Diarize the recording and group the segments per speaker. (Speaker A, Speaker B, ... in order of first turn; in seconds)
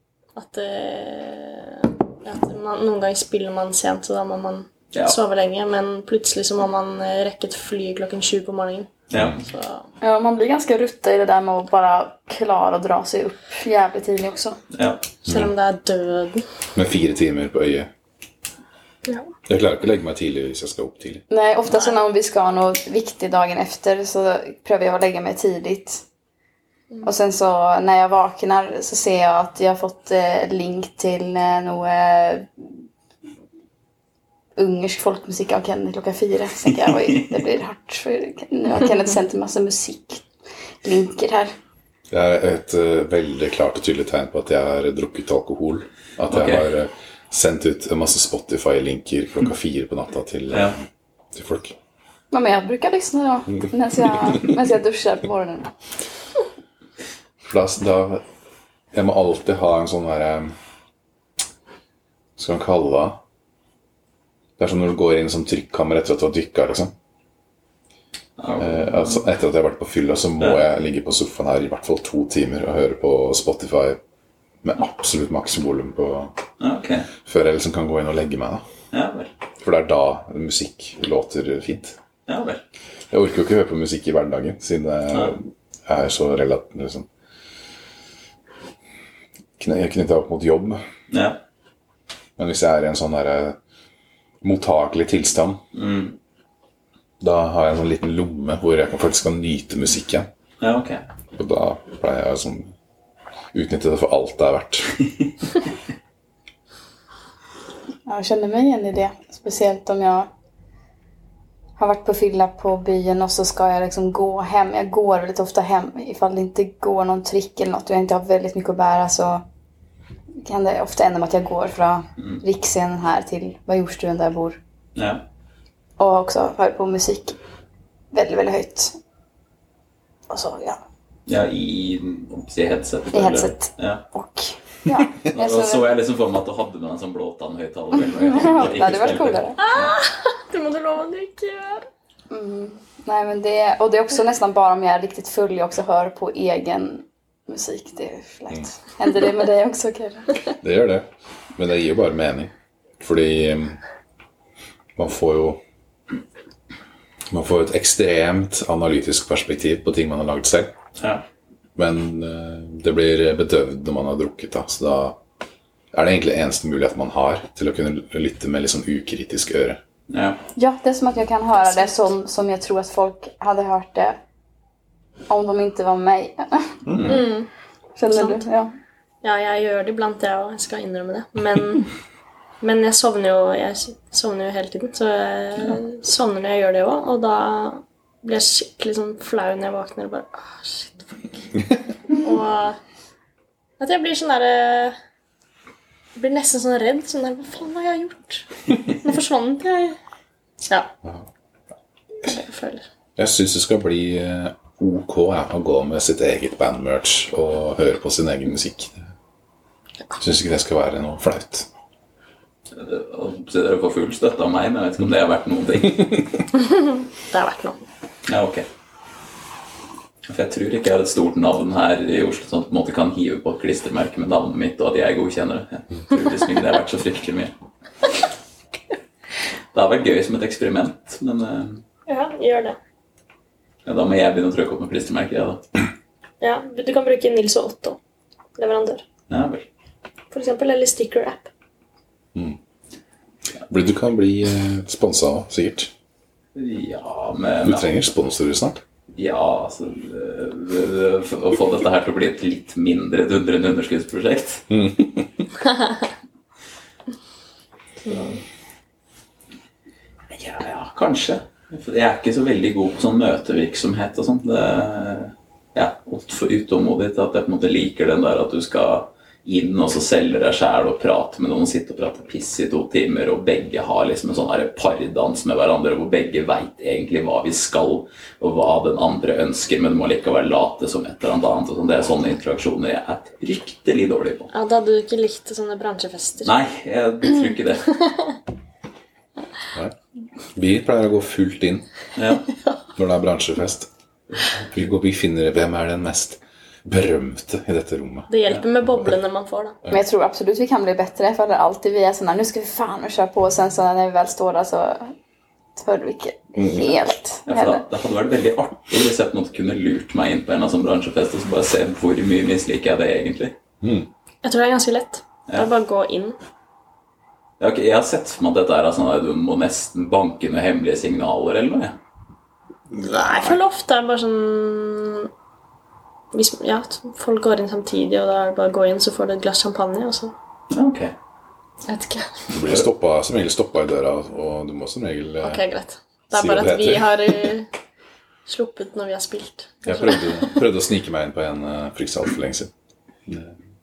Speaker A: 0.3-8.9, 9.4-9.8, 15.2-16.4, 19.0-19.3, 139.6-141.9, 171.6-172.1, 177.0-177.5, 178.1-178.4, 179.2-181.9, 182.6-191.4, 192.1-192.8, 193.8-195.0, 196.2-200.0, 200.6-200.9, 202.2-202.8, 216.6-217.8, 232.1-232.8, 236.4-238.0, 238.6-239.0, 240.3-241.5, 284.5-286.5, 298.3-299.8, 314.4-316.4, 323.0-325.3, 326.3-330.3, 331.9-332.5, 335.4-337.7, 338.4-340.6
Speaker B: 4.9-5.2, 9.1-9.4, 14.7-15.0, 36.7-37.2, 46.3-46.7, 50.5-50.8, 68.4-69.2, 76.6-77.1, 78.9-79.3, 82.3-82.6, 91.1-91.4, 95.7-96.2, 100.6-101.0, 125.0-125.2, 131.3-134.0, 134.9-139.9, 161.0-161.2, 170.1-170.4, 176.9-177.2, 212.7-216.2, 218.3-218.7, 220.3-227.5, 229.7-231.8, 233.8-235.6, 239.3-239.7, 246.5-247.9, 249.1-254.7, 258.0-258.4, 260.3-284.5, 286.4-288.0, 292.1-292.5, 307.5-313.6, 317.6-322.0, 330.7-331.1
Speaker C: 9.1-9.4, 15.3-15.5, 16.7-17.9, 19.5-21.2, 42.1-51.7, 57.4-58.2, 58.9-60.5, 62.4-63.2, 64.6-66.9, 68.6-74.0, 74.6-76.3, 77.2-78.6, 79.6-82.0, 83.1-87.1, 89.6-90.8, 92.4-93.6, 94.4-95.6, 97.2-100.3, 101.3-102.7, 103.5-105.0, 150.6-153.8, 155.0-155.6, 157.3-160.7, 161.8-165.2, 165.9-169.8, 176.8-177.2, 203.2-209.0, 210.2-211.7, 243.7-245.9, 247.6-248.8, 254.7-255.5, 290.5-291.9, 292.9-293.9, 294.6-298.3, 306.6-306.9, 313.8-314.1, 322.9-323.6, 332.5-335.6, 336.3-337.5, 339.9-342.7, 343.3-343.5
Speaker D: 10.0-14.6, 21.3-26.0, 27.0-32.7, 34.6-40.3, 40.8-41.5, 52.3-55.7, 108.1-110.3, 111.8-119.4, 120.4-124.6, 126.0-127.4, 128.1-128.9, 130.3-130.8, 133.1-135.9, 138.1-139.6, 142.3-150.4, 170.6-174.2, 175.3-176.8, 177.9-178.7, 299.9-305.1, 305.8-307.8